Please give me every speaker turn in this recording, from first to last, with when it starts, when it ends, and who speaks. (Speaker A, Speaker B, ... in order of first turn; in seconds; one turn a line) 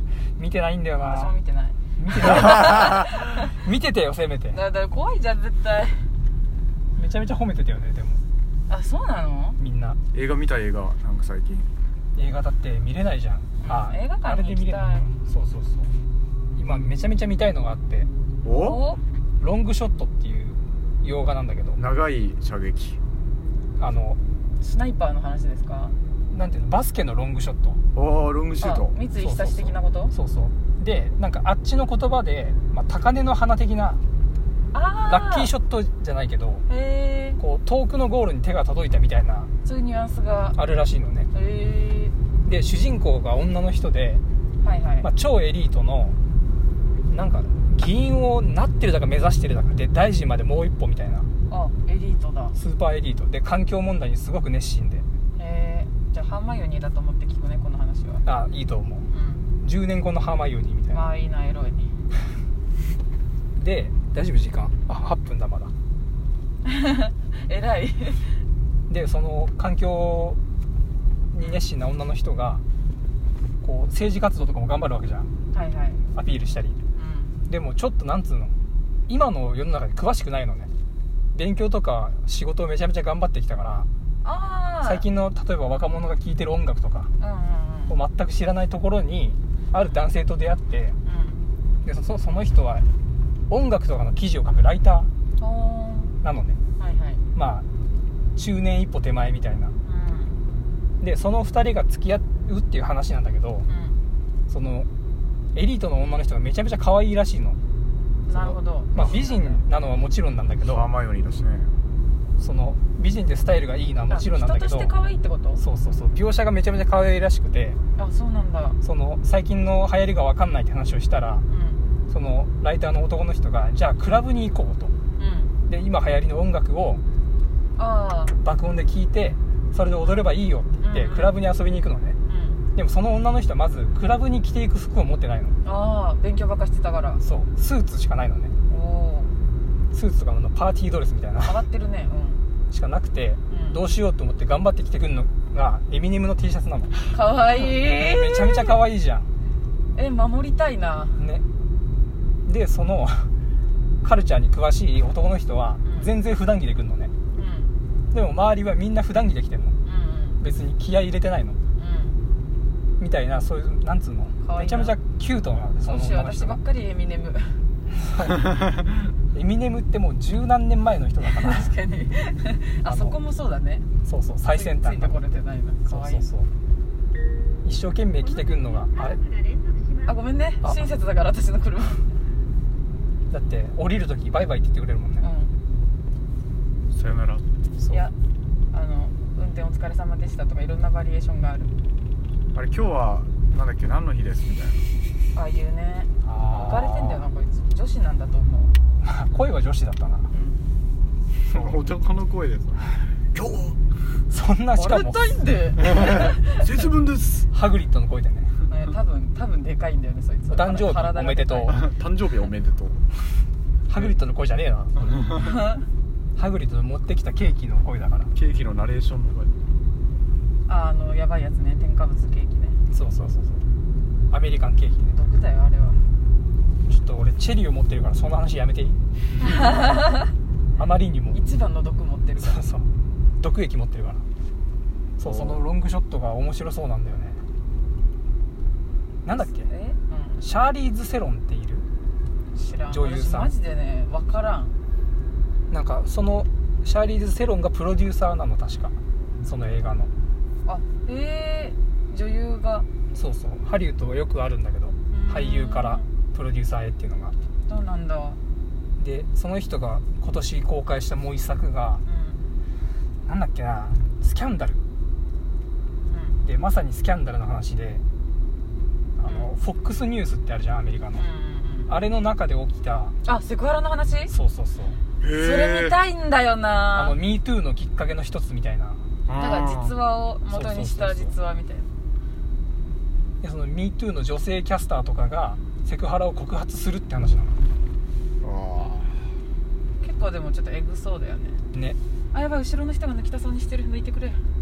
Speaker A: 0.4-1.3
Speaker B: 0.9-1.8
Speaker A: 2.0-4.6
Speaker B: 2.4-3.5
Speaker B: 4.5-6.1
Speaker A: 7.0-8.2
Speaker B: 8.7-9.6
Speaker A: 9.6-10.0
Speaker C: 10.1-11.7
Speaker A: 12.2-15.9
Speaker B: 13.6-15.1
Speaker A: 16.6-18.1
Speaker C: 18.4-18.8
Speaker B: 18.5-19.0
Speaker A: 19.4-21.8
Speaker C: 21.8-23.0
Speaker A: 23.8-24.2
Speaker B: 24.6-26.0
Speaker A: 26.3-27.8
Speaker C: 27.9-29.0
Speaker B: 28.6-30.1
Speaker A: 29.1-34.0
Speaker B: 34.7-35.5
Speaker A: 35.1-36.6
Speaker B: 36.7-37.4
Speaker A: 37.4-39.5
Speaker B: 39.6-40.6
Speaker A: 40.5-41.3
Speaker B: 41.3-42.1
Speaker A: 42.5-44.2
Speaker B: 44.6-45.1
Speaker A: 45.0-46.2
Speaker A: 47.1-51.3
Speaker B: 51.5-52.6
Speaker A: 52.6-55.0
Speaker B: 55.4-58.2
Speaker A: 58.2-59.1
Speaker B: 59.1-59.5
Speaker A: 59.6-61.1
Speaker B: 60.9-62.0
Speaker A: 63.6-65.7
Speaker B: 66.6-68.3
Speaker A: 68.9-70.4
Speaker A: 71.3-72.6
Speaker A: 73.6-75.3
Speaker B: 75.5-76.0
Speaker A: 76.2-76.8
Speaker B: 77.0-77.4
Speaker A: 77.5-78.5
Speaker A: 79.1-80.7
Speaker A: 81.3-83.9
Speaker B: 84.2-85.0
Speaker A: 84.8-87.1
Speaker B: 87.2-88.0
Speaker A: 87.9-91.0
Speaker B: 91.0-91.4
Speaker A: 91.8-92.9
Speaker A: 93.5-95.1
Speaker B: 95.4-96.2
Speaker A: 96.2-96.6
Speaker B: 96.8-97.2
Speaker A: 97.3-97.7
Speaker A: 98.4-99.8
Speaker B: 99.8-100.4
Speaker A: 101.0-103.7
Speaker B: 103.7-104.0
Speaker A: 104.5-104.9
Speaker A: 105.5-107.6
Speaker B: 108.3-109.6
Speaker A: 108.3-110.9
Speaker C: 110.6-111.7
Speaker A: 112.4-114.9
Speaker B: 114.1-115.6
Speaker A: 115.6-117.8
Speaker B: 118.0-118.8
Speaker A: 118.8-121.4
Speaker B: 121.5-121.8
Speaker A: 122.1-124.9
Speaker B: 125.2-125.5
Speaker A: 125.7-127.0
Speaker B: 127.8-128.3
Speaker A: 128.4-132.2
Speaker B: 130.8-131.4
Speaker B: 132.3-132.6
Speaker A: 132.8-135.6
Speaker B: 135.6-137.2
Speaker A: 137.2-138.5
Speaker B: 138.7-139.3
Speaker A: 139.9-141.6
Speaker B: 141.4-142.4
Speaker A: 142.7-146.9
Speaker B: 143.5-143.8
Speaker B: 147.1-148.8
Speaker A: 147.5-149.3
Speaker B: 149.9-151.2
Speaker A: 151.2-151.4
Speaker A: 152.4-153.3
Speaker A: 154.0-157.1
Speaker B: 155.8-156.1
Speaker B: 157.3-157.7
Speaker A: 158.1-159.8
Speaker B: 159.8-160.4
Speaker A: 160.4-161.6
Speaker B: 161.8-162.2
Speaker A: 163.0-166.6
Speaker B: 164.4-165.0
Speaker B: 165.8-167.6
Speaker A: 167.9-168.7
Speaker A: 169.3-171.7
Speaker B: 171.2-173.9
Speaker A: 172.8-173.2
Speaker A: 174.1-175.3
Speaker B: 174.5-176.3
Speaker A: 175.8-176.5
Speaker A: 177.6-179.2
Speaker B: 180.1-182.1
Speaker A: 183.3-185.3
Speaker B: 185.2-185.6
Speaker C: 186.9-187.5
Speaker A: 187.8-188.1
Speaker B: 187.9-188.2
Speaker B: 188.7-191.7
Speaker C: 192.5-194.8
Speaker B: 195.3-198.8
Speaker A: 196.2-197.3
Speaker A: 199.0-200.3
Speaker B: 200.3-200.7
Speaker C: 201.5-203.8
Speaker A: 201.5-201.8
Speaker A: 204.3-205.4
Speaker B: 204.8-206.6
Speaker C: 206.5-207.5
Speaker A: 207.5-208.5
Speaker B: 208.7-211.8
Speaker A: 210.5-211.8
Speaker C: 211.7-213.0
Speaker A: 213.9-215.3
Speaker B: 215.3-215.9
Speaker A: 216.4-218.3
Speaker C: 218.3-219.5
Speaker B: 220.7-222.8
Speaker A: 222.9-223.6
Speaker A: 224.3-225.2
Speaker B: 225.1-226.0
Speaker A: 226.9-229.0
Speaker B: 229.4-230.3
Speaker A: 230.8-231.4
Speaker B: 231.3-232.6
Speaker A: 232.4-234.2
Speaker A: 235.2-237.4
Speaker C: 235.2-235.6
Speaker A: 239.2-239.7
Speaker B: 239.3-240.4
Speaker A: 240.4-241.9
Speaker B: 242.5-244.7
Speaker A: 242.9-243.5
Speaker A: 245.7-250.1
Speaker B: 250.7-252.9
Speaker A: 253.1-257.3
Speaker B: 255.1-256.1
Speaker B: 257.7-258.4
Speaker A: 259.0-262.0
Speaker B: 262.1-262.4
Speaker A: 263.3-264.9
Speaker B: 266.1-266.4
Speaker A: 266.4-268.0
Speaker A: 269.2-271.2
Speaker B: 271.1-271.9
Speaker A: 271.9-273.2
Speaker B: 273.2-274.3
Speaker A: 274.3-275.0
Speaker C: 275.2-276.0
Speaker B: 275.3-277.2
Speaker A: 276.9-279.0
Speaker C: 279.3-279.9
Speaker B: 279.3-281.9
Speaker A: 280.5-281.3
Speaker A: 283.4-287.6
Speaker C: 288.4-289.2
Speaker B: 290.0-291.6
Speaker A: 291.7-292.0
Speaker B: 292.3-294.4